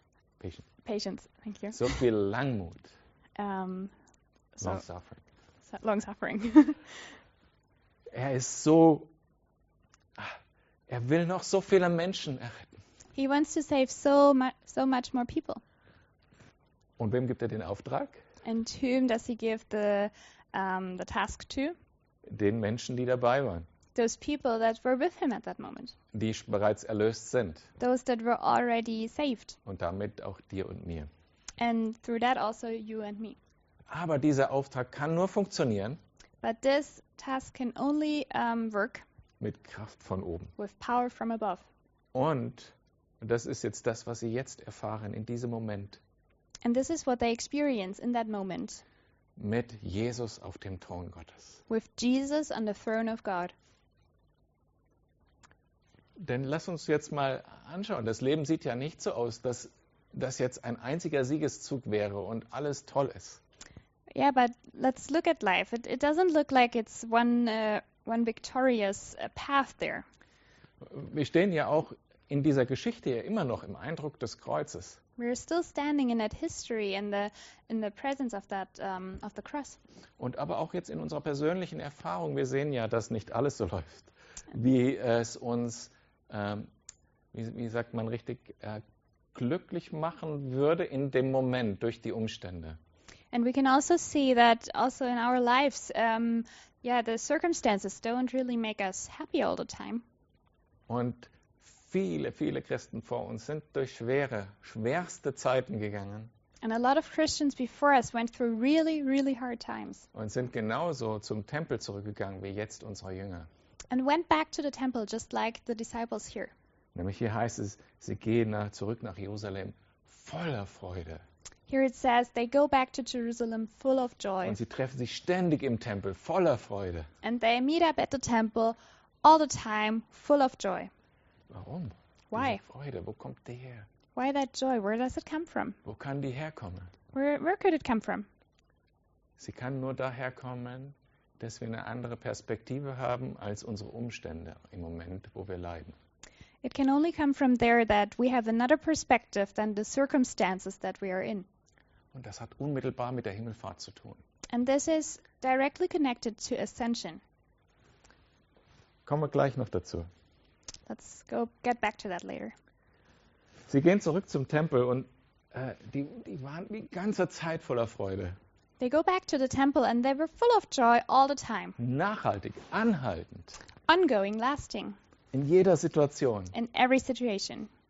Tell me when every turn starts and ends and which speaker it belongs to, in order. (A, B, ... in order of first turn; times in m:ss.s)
0:00.4-0:00.6 A
0:00.8-0:02.0 B
0:01.7-0:02.9 A
0:03.4-0:03.9 B
0:04.6-0:04.8 B
0:04.6-0:05.2 A
0:05.6-0:07.1 B
0:08.1-0:09.1 A
0:10.9-0:12.7 A
0:13.1-0:15.6 B
0:17.0-0:18.2 A
0:18.4-0:21.7 B
0:22.2-0:23.7 A
0:23.9-0:25.9 B
0:26.1-0:27.7 A
0:27.8-0:29.6 B
0:29.6-0:31.1 A
0:31.6-0:33.4 B
0:33.9-0:36.0 A
0:36.4-0:39.0 B
0:39.4-0:40.5 A
0:40.6-0:41.6 B
0:42.1-0:46.0 A
0:46.6-0:48.8 B
0:49.4-0:51.6 A
0:51.7-0:53.5 B
0:56.2-1:03.4 A
1:04.1-1:10.0 B
1:10.8-1:15.0 A
1:15.2-1:19.8 B
1:20.2-1:26.7 A
1:27.3-1:28.8 A
1:29.3-1:32.8 A
1:33.3-1:40.0 B
1:40.9-1:46.3 A
1:46.6-1:50.1 B
1:50.1-1:53.5 A
1:53.9-1:56.5 B
1:56.9-2:01.2 A
2:01.7-2:04.6 B
2:04.4-2:07.1 A
2:07.2-2:10.9 B
2:11.5-2:13.9 A
2:12.3-2:12.6 B
2:14.2-2:15.8 B
2:15.8-2:16.9 A
2:17.1-2:18.3 B
2:19.4-2:26.0 A
2:26.6-2:31.4 B
2:32.1-2:34.2 A
2:34.5-2:37.2 B
2:39.0-2:40.1 A
2:40.9-2:42.5 B
2:43.7-2:48.4 A
2:48.8-2:51.8 B
2:51.8-2:53.6 A
2:53.9-2:55.0 B
2:55.3-2:56.5 A
2:56.5-2:57.7 B